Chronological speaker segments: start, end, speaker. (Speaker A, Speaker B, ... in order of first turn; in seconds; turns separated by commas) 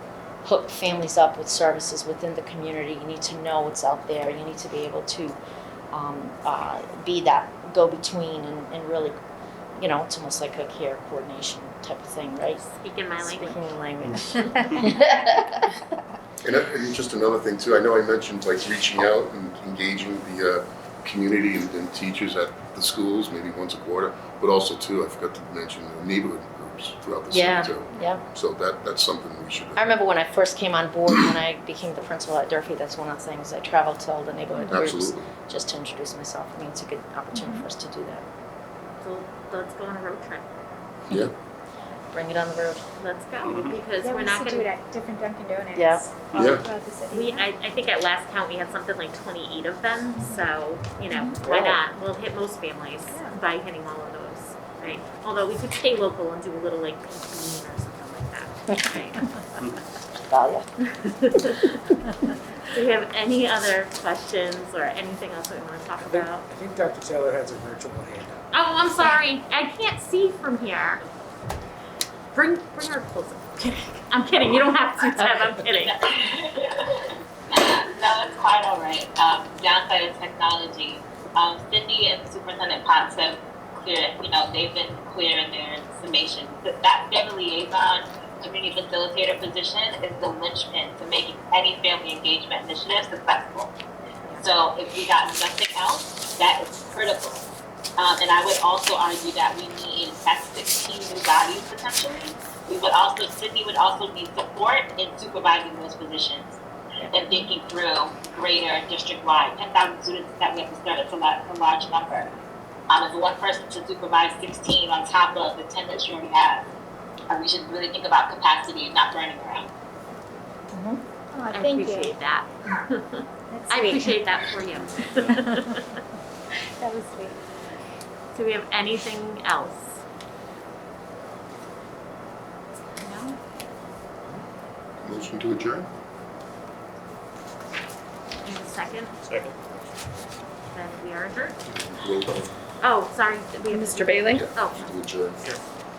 Speaker A: 0.4-5.4, Speaker A: 5.9-9.2, Speaker A: 9.8-12.6, Speaker B: 12.5-13.6, Speaker A: 13.2-15.7, Speaker C: 16.4-29.9, Speaker A: 27.3-28.2, Speaker A: 29.8-38.3, Speaker C: 34.7-35.3, Speaker B: 39.0-40.7, Speaker A: 42.1-42.8, Speaker B: 43.0-44.7, Speaker D: 44.0-47.4, Speaker A: 45.7-46.1, Speaker C: 46.3-46.6, Speaker B: 47.1-59.4, Speaker A: 51.4-51.8, Speaker A: 60.3-60.7, Speaker B: 61.0-62.0, Speaker B: 62.6-66.5, Speaker E: 66.0-68.4, Speaker B: 68.5-71.0, Speaker B: 72.3-76.0, Speaker F: 75.2-93.8, Speaker F: 94.4-97.5, Speaker F: 98.0-106.6, Speaker F: 107.1-112.3, Speaker F: 112.9-116.7, Speaker F: 117.3-119.7, Speaker A: 120.7-121.0, Speaker D: 121.3-122.1, Speaker B: 121.5-126.0, Speaker D: 123.5-124.0, Speaker D: 126.8-127.4, Speaker B: 128.3-130.0, Speaker B: 133.0-133.4, Speaker C: 135.0-135.9, Speaker B: 138.4-139.2, Speaker B: 140.7-141.6, Speaker C: 141.7-142.5, Speaker B: 142.8-145.0, Speaker D: 143.7-144.5, Speaker C: 144.3-145.6